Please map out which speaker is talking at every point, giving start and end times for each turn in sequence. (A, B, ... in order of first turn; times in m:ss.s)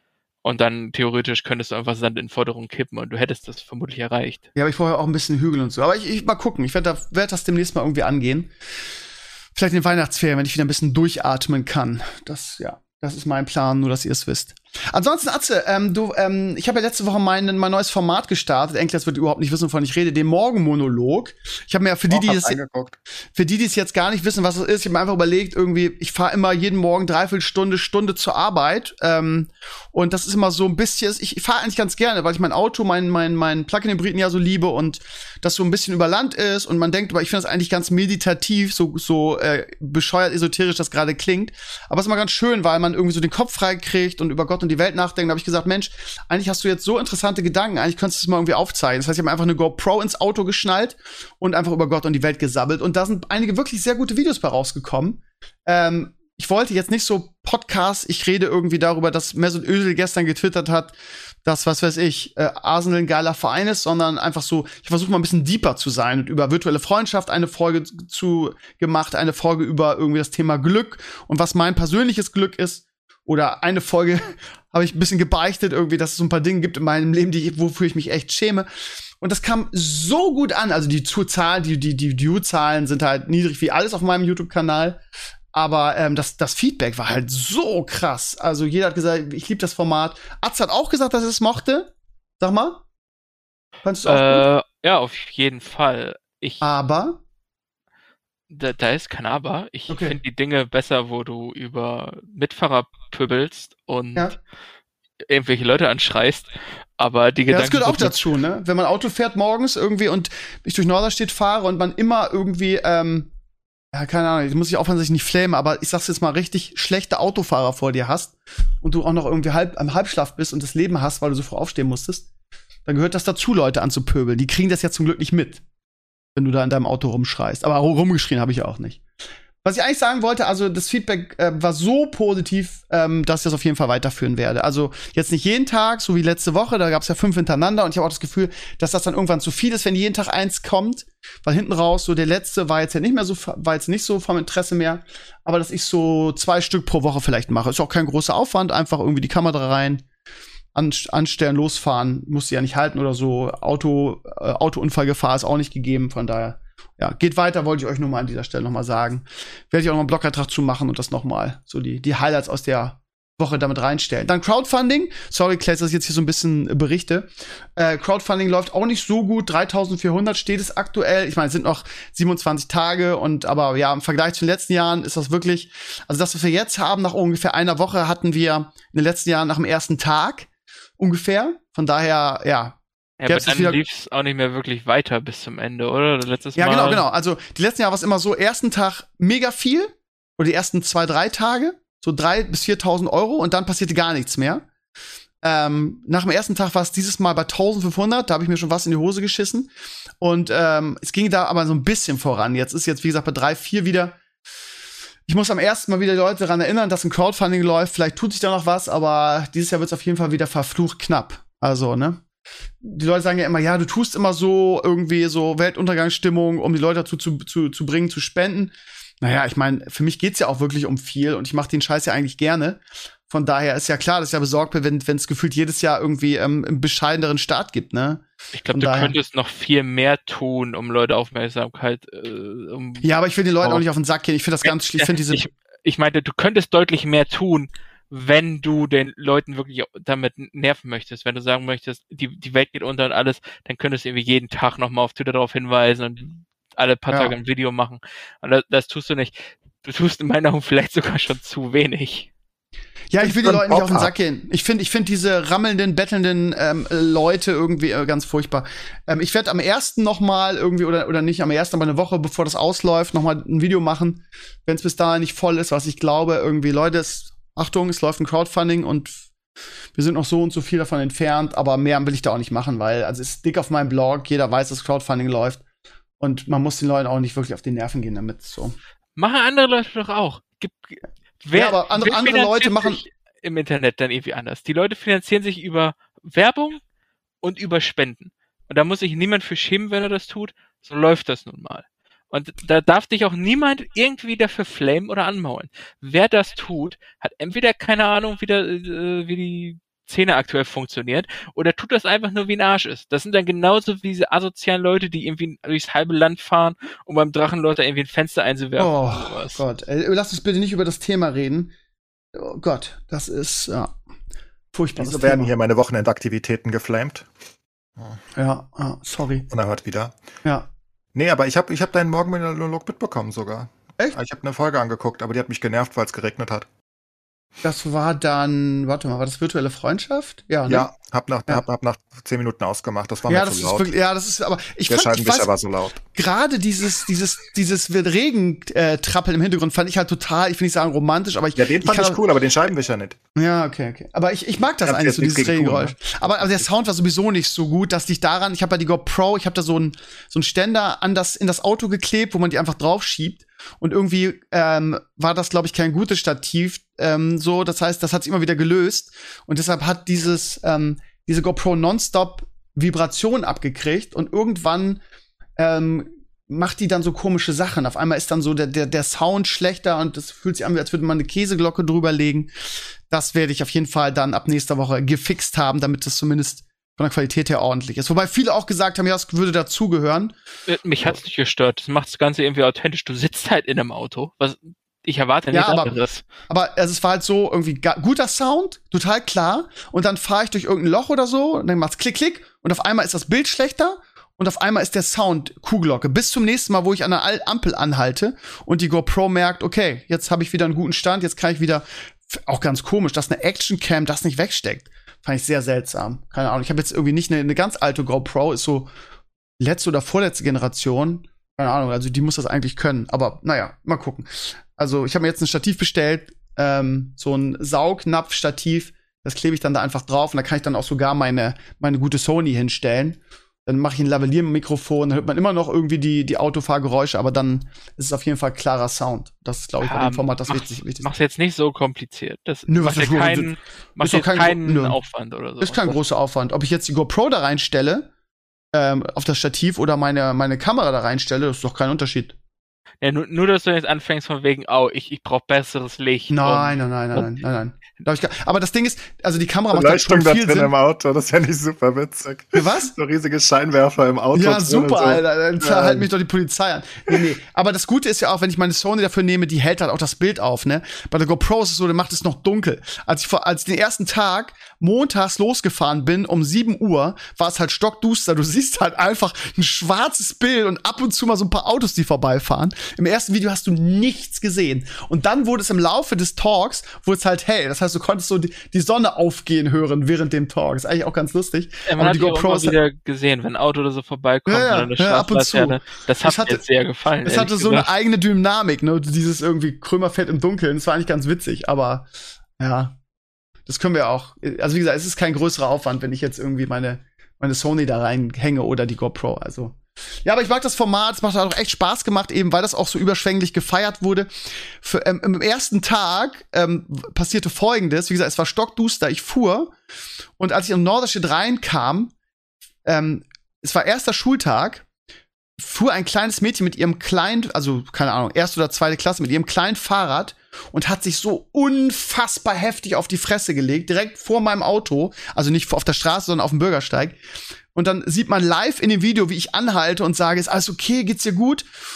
0:00.4-0:04.4 A
0:04.5-0:08.5 B
0:09.5-0:22.6 B
0:22.1-0:23.0 C
0:23.3-1:18.7 B
1:19.2-1:25.0 B
1:25.5-1:32.8 B
1:33.8-1:34.5 B
1:34.0-1:36.7 A
1:36.6-1:37.2 B
1:38.5-1:44.3 A
1:39.9-1:40.2 B
1:45.3-1:48.2 A
1:47.5-1:53.3 B
1:53.9-2:02.2 B
2:02.8-2:05.6 B
2:06.4-2:09.0 B
2:09.6-2:30.0 B
2:30.7-3:00.5 B
3:01.0-3:03.8 B
3:03.2-3:07.0 A
3:06.6-3:14.6 B
3:15.4-3:19.7 B
3:20.2-3:24.2 B
3:25.3-3:32.2 B
3:32.8-3:49.1 B
3:48.5-3:53.1 A
3:53.0-3:55.5 B
3:54.6-4:12.3 A
4:13.1-4:29.2 B
4:13.2-4:14.1 C
4:29.9-4:35.6 B
4:36.2-4:38.8 B
4:39.2-4:46.8 A
4:41.5-4:43.0 B
4:47.4-5:09.6 A
5:08.8-5:11.7 B
5:12.3-5:13.9 B
5:14.7-5:15.5 B
5:15.0-5:17.3 C
5:18.3-5:19.5 B
5:19.5-5:20.1 C
5:21.1-5:26.7 C
5:27.6-5:30.9 B
5:30.7-5:33.9 C
5:33.3-5:35.5 B
5:34.9-5:36.0 C
5:36.1-5:42.2 B
5:41.6-5:43.2 C
5:43.3-6:05.0 B
5:44.8-5:46.6 C
6:05.6-6:12.5 B
6:13.1-6:20.3 B
6:20.7-6:26.2 A
6:25.5-6:26.0 B
6:26.5-6:48.9 B
6:49.6-7:11.1 B
7:09.8-7:16.0 A
7:12.7-7:13.5 B
7:14.0-7:15.0 B
7:15.6-7:18.1 B
7:18.7-7:22.3 B
7:23.0-7:27.4 A
7:26.3-7:30.7 B
7:29.7-7:36.1 C
7:32.5-7:32.9 B
7:34.3-8:02.8 B
8:01.9-8:07.9 A
8:04.5-8:06.6 B
8:07.2-8:12.1 B
8:12.6-8:12.9 B
8:13.7-8:24.3 B
8:24.8-8:29.7 B
8:30.4-8:32.1 B
8:32.8-8:34.8 B
8:35.6-8:47.2 B
8:47.7-8:51.6 B